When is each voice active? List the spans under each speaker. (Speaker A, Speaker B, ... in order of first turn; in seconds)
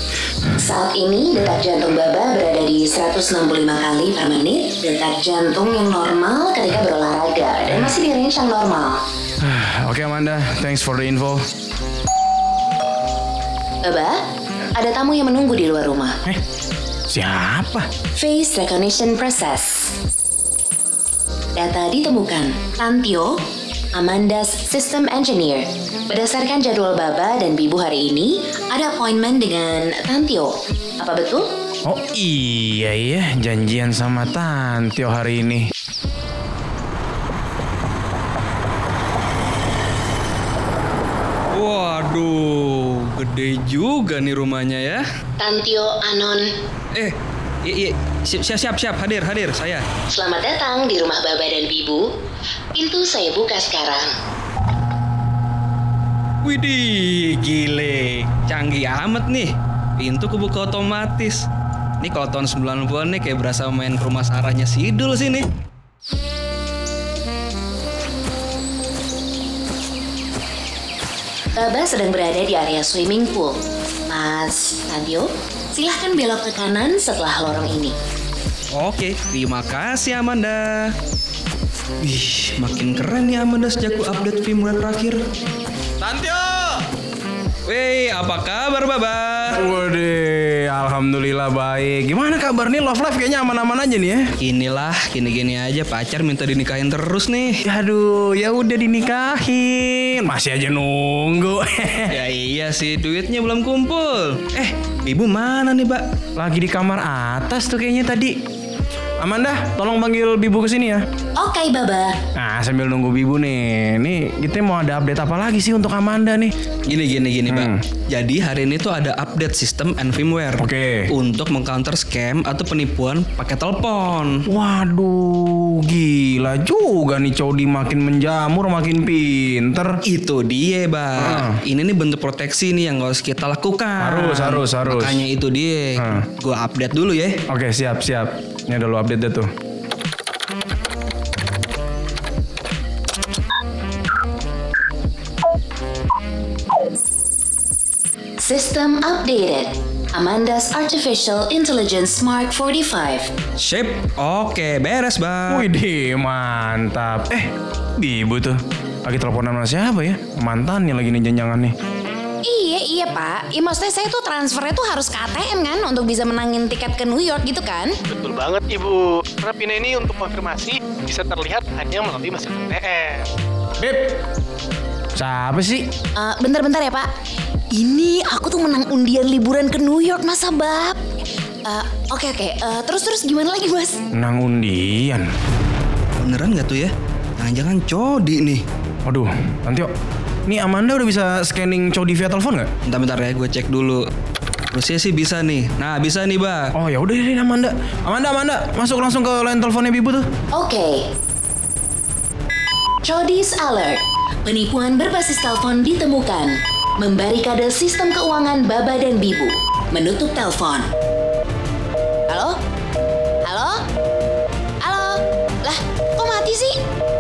Speaker A: 0.6-9.0, 13.8-14.2, 14.8-16.2, 18.2-19.9, 21.6-23.3, 23.9-31.5, 45.4-46.5, 50.1-52.0, 52.8-54.1, 71.6-73.6, 74.1-78.0, 111.4-112.2, 148.4-153.3, 200.5-201.1, 203.0-210.8
Speaker B: 7.7-8.0, 9.4-11.5, 17.1-17.9, 31.8-35.7, 86.0-86.8, 89.5-94.3, 97.6-102.2, 106.4-108.4, 109.2-111.0, 112.4-116.5, 117.5-117.8, 120.6-121.1, 124.5-130.0, 131.2-131.6, 134.0-135.2, 136.0-136.2, 137.5-139.5, 155.5-161.8, 173.8-174.1, 175.2-175.9, 184.1-185.3, 189.1-189.9, 190.5-192.7, 196.8-200.3
Speaker C: 41.5-45.0, 46.9-49.9, 56.4-61.5, 62.0-65.5, 78.7-81.0, 82.0-85.2, 87.7-89.6, 94.4-97.6, 102.1-106.0, 116.9-124.5, 130.0-137.4, 153.6-155.7, 186.2-188.6, 192.9-194.1, 194.7-196.7
Speaker D: 162.4-167.9, 176.2-177.1, 177.7-181.0, 181.7-184.0, 212.3-212.6, 213.4-213.8, 214.8-216.8
Speaker E: 168.1-173.3